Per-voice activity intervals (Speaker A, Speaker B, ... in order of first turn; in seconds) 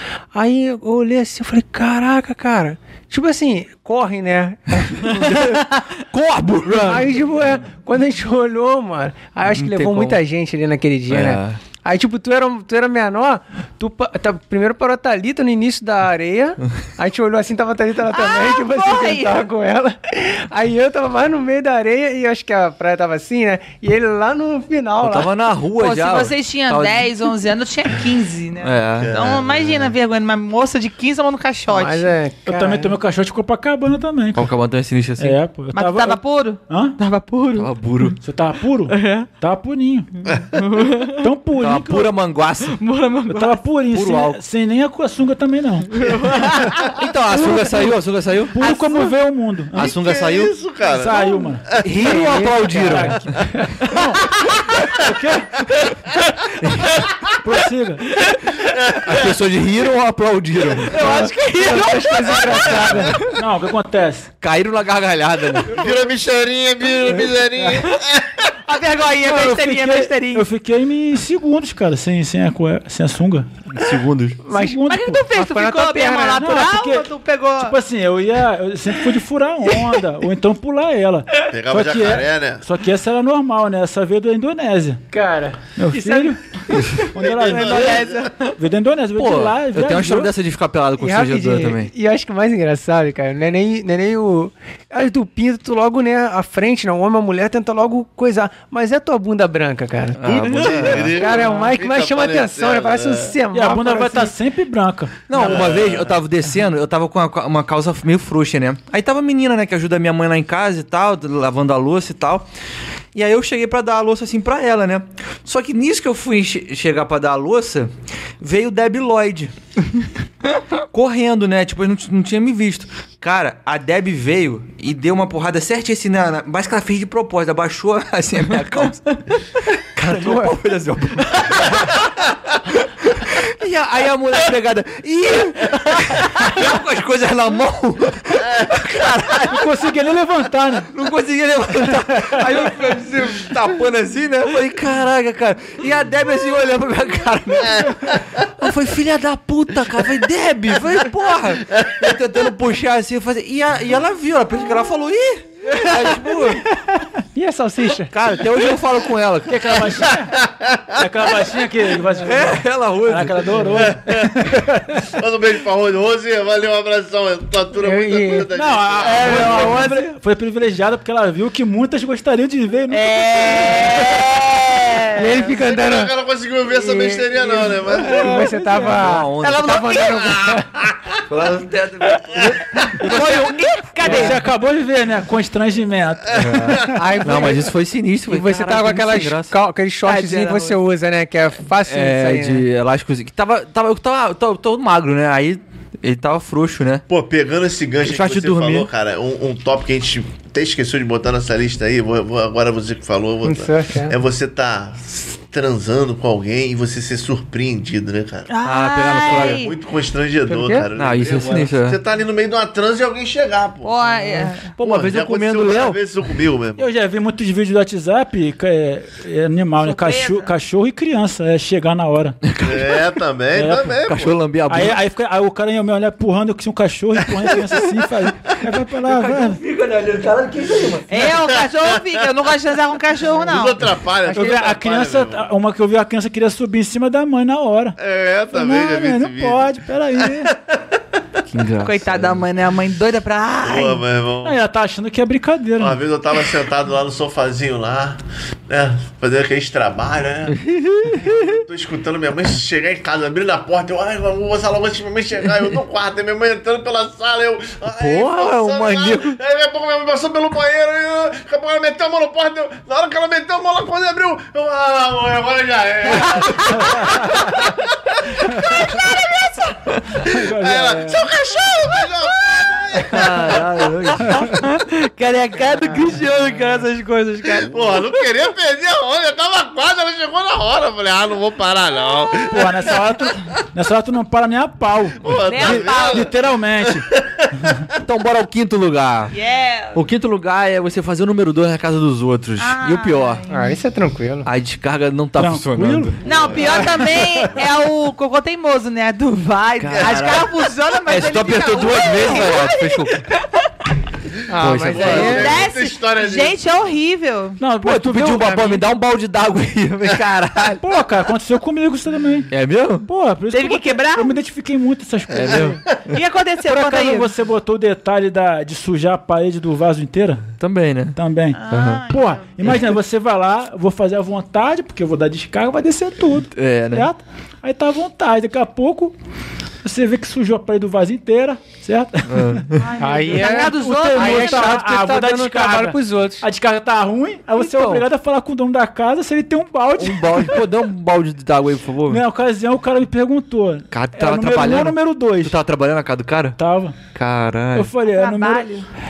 Speaker A: 0.3-5.6, 6.7-25.3, 31.7-32.9, 52.0-53.8, 60.9-63.2, 74.5-76.4, 85.1-86.3, 87.6-87.9, 91.0-104.3, 105.4-105.7, 130.0-130.5, 157.3-158.1, 167.8-168.5, 175.2-176.1, 176.7-180.7, 182.3-182.6, 184.1-184.3, 186.9-187.7, 188.3-192.6, 203.5-204.1, 210.5-210.9, 293.5-294.5, 304.5-305.6, 308.2-308.8, 333.0-336.4, 337.6-338.0
Speaker B: 5.1-7.1, 9.5-10.2, 11.1-11.6, 25.0-27.5, 28.6-29.1, 34.4-35.4, 37.6-38.2, 40.8-41.0, 41.6-42.9, 43.9-44.4, 46.1-48.6, 49.8-50.5, 51.8-53.2, 56.6-57.1, 58.1-63.3, 64.4-65.8, 73.7-74.4, 86.7-87.0, 89.2-91.9, 100.2-101.5, 105.3-112.5, 113.2-119.5, 120.9-139.7, 140.9-156.6, 158.1-159.8, 162.2-163.5, 178.8-179.9, 181.3-184.4, 186.3-190.8, 191.8-197.0, 198.1-198.9, 208.6-209.7, 211.0-212.0, 214.8-216.0, 222.4-223.1, 224.1-225.0, 228.9-231.3, 241.5-242.4, 250.5-251.6, 258.0-259.4, 273.1-278.3, 288.0-289.3, 289.9-293.4, 294.4-296.2, 299.8-300.5, 301.1-303.3, 304.6-305.4, 307.8-310.8, 312.5-313.1, 315.3-316.0, 320.6-321.2, 321.7-322.1, 322.6-322.9, 326.6-327.1, 332.3-332.8, 340.0-342.2, 343.9-346.6, 347.1-347.9
Speaker C: 18.1-19.4, 25.8-32.1, 35.7-38.1, 38.9-39.3, 40.5-41.2, 42.8-43.6, 46.0-47.9, 48.6-49.1, 54.3-54.7, 61.1-62.6, 68.7-70.5, 74.9-77.8, 87.6-88.3, 169.1-169.8, 172.9-175.5, 179.4-180.6, 182.8-184.4, 208.5-209.7, 213.8-214.7, 219.8-220.5, 231.1-233.8, 241.8-244.0, 266.2-267.1, 268.9-269.6, 274.3-274.6, 282.0-282.4, 285.4-286.3, 289.3-290.0, 292.6-293.8, 296.2-303.4, 305.0-307.6, 313.5-314.4, 316.1-317.3, 321.5-322.8, 332.8-334.8, 348.0-348.9
Speaker D: 29.0-29.9, 49.8-51.8, 58.7-59.4, 65.7-68.5, 81.5-82.6, 87.1-88.3, 100.2-103.4, 105.3-106.2, 147.7-148.1, 151.8-152.1, 160.2-161.0, 163.7-164.5, 165.1-169.9, 175.4-178.3, 197.1-208.5, 209.2-213.9, 214.8-216.8, 222.6-224.4, 231.4-232.2, 233.3-235.5, 238.0-241.0, 243.6-244.6, 245.8-269.1, 270.2-273.7, 277.6-282.9, 285.2-286.3, 286.8-287.5, 296.2-297.2, 299.9-300.3, 304.9-306.6, 315.4-316.0
Speaker E: 32.5-34.5, 35.2-37.0, 38.2-40.1, 41.2-42.1, 43.3-45.9, 48.5-50.0, 50.9-51.7, 52.8-55.6, 57.4-58.1, 63.3-64.3, 69.2-73.5, 74.5-75.3, 76.4-85.0, 85.8-90.3, 103.5-105.3, 139.5-140.9, 142.1-142.4, 156.2-157.1, 159.5-160.4, 161.0-165.1, 168.5-173.9, 177.9-179.1, 184.0-187.0, 216.8-222.4, 223.5-224.0, 224.7-229.6, 234.3-238.0, 238.5-240.5, 244.4-246.0, 266.9-267.3, 270.2-271.3, 274.3-274.6, 282.5-287.1, 295.4-296.1, 296.7-297.5, 307.6-308.5, 310.8-312.5, 313.0-315.8, 316.6-320.5, 321.1-329.1, 329.8-332.7, 333.3-340.6, 342.1-345.6, 346.6-347.0, 347.8-348.7